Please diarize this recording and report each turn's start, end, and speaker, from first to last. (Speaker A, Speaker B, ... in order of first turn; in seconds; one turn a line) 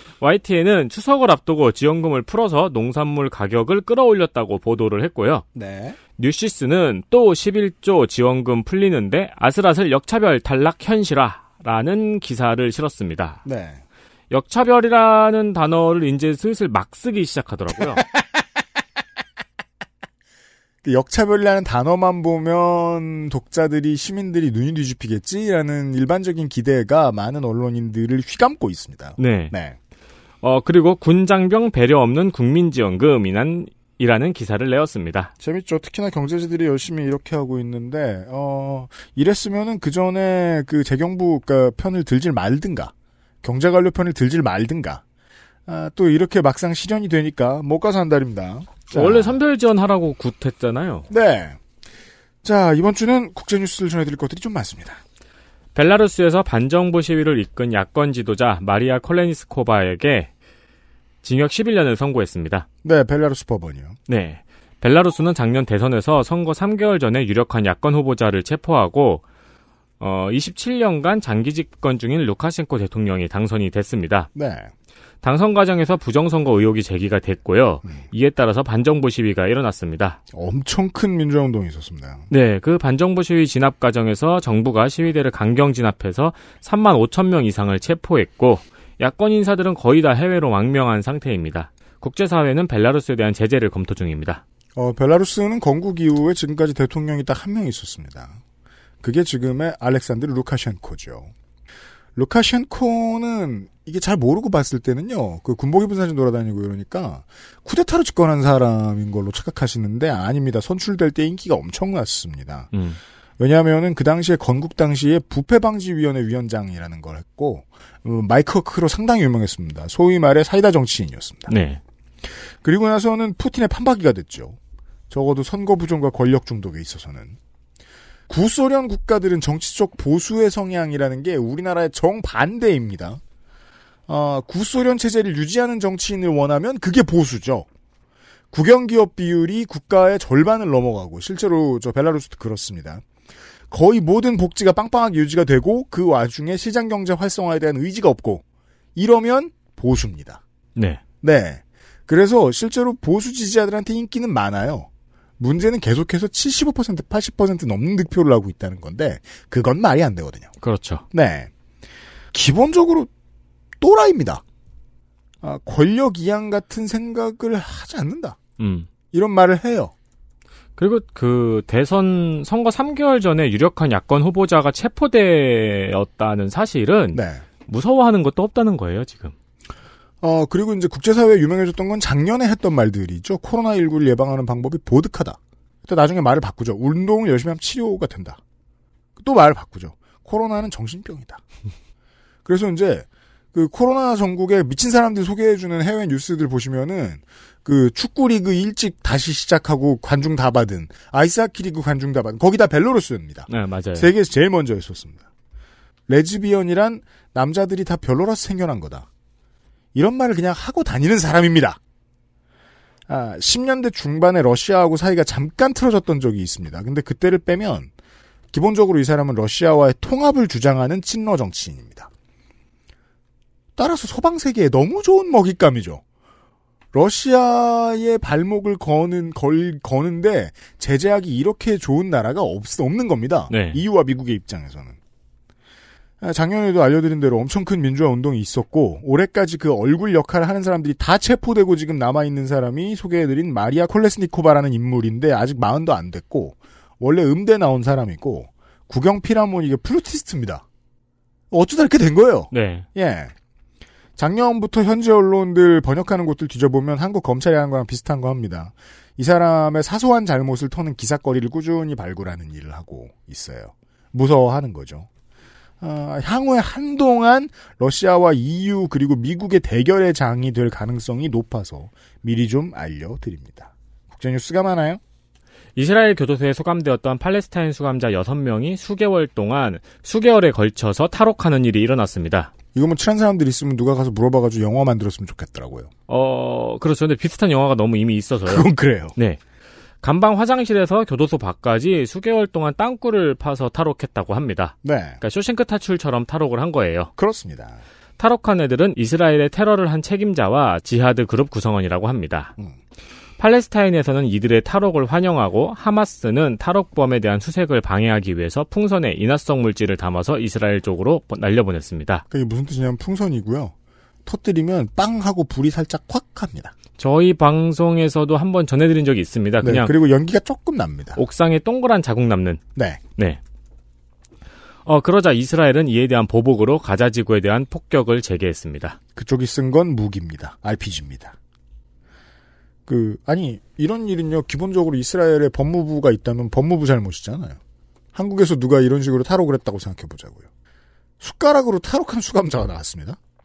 Speaker A: 0.2-5.4
Speaker B: 5.5-6.0
Speaker A: 6.2-13.4
Speaker B: 13.4-13.8
Speaker A: 14.3-18.0
Speaker B: 20.8-29.8
Speaker A: 29.2-29.5
Speaker A: 30.4-35.3
Speaker B: 35.4-42.9
Speaker B: 43.4-45.0
Speaker B: 45.7-49.4
Speaker A: 48.9-51.1
Speaker B: 51.1-51.6
Speaker B: 52.4-55.0
Speaker A: 55.7-60.3
Speaker A: 61.2-62.6
Speaker B: 62.8-64.0
Speaker A: 64.1-69.2
Speaker A: 70.0-74.3
Speaker B: 74.3-74.7
Speaker A: 75.2-80.2
Speaker B: 80.3-82.2
Speaker A: 82.3-94.4
Speaker B: 94.8-98.4
Speaker B: 99.0-101.3
Speaker B: 102.2-112.7
Speaker A: 112.7-113.0
Speaker B: 113.4-121.5
Speaker A: 121.5-121.8
Speaker B: 122.6-124.6
Speaker B: 125.1-127.4
Speaker B: 128.3-133.2
Speaker B: 134.1-137.7
Speaker B: 138.5-143.0
Speaker B: 143.7-148.4
Speaker B: 148.9-150.4
Speaker A: 150.8-151.0
Speaker B: 151.2-154.9
Speaker B: 155.4-160.5
Speaker A: 160.6-161.0
Speaker B: 161.1-161.5
Speaker B: 162.3-163.1
Speaker B: 163.8-164.4
Speaker B: 165.4-168.4
Speaker A: 168.6-168.9
Speaker B: 169.1-169.9
Speaker A: 170.8-179.3
Speaker B: 177.1-177.4
Speaker B: 180.2-188.4
Speaker B: 189.2-191.4
Speaker B: 192.4-205.2
Speaker A: 203.5-204.1
Speaker B: 206.1-209.1
Speaker B: 209.9-211.8
Speaker B: 213.1-217.9
Speaker B: 218.5-222.1
Speaker B: 223.8-226.0
Speaker B: 226.9-234.9
Speaker A: 233.5-233.8
Speaker B: 236.2-250.6
Speaker B: 251.5-253.3
Speaker A: 252.5-252.8
Speaker B: 254.2-265.1
Speaker B: 265.8-275.0
Speaker A: 275.8-282.5
Speaker B: 282.7-285.9
Speaker A: 286.1-289.4
Speaker B: 288.4-289.1
Speaker A: 290.0-297.1
Speaker B: 294.8-295.2
Speaker B: 297.2-297.8
Speaker A: 298.2-302.5
Speaker A: 303.4-312.2
Speaker B: 312.3-313.7
Speaker B: 314.2-316.7
Speaker A: 317.0-319.9
Speaker B: 319.6-321.2
Speaker A: 321.1-322.6
Speaker B: 322.7-323.0
Speaker A: 324.9-329.0
Speaker B: 329.1-331.3
Speaker B: 332.9-337.6
Speaker B: 338.1-340.5
Speaker B: 341.2-343.2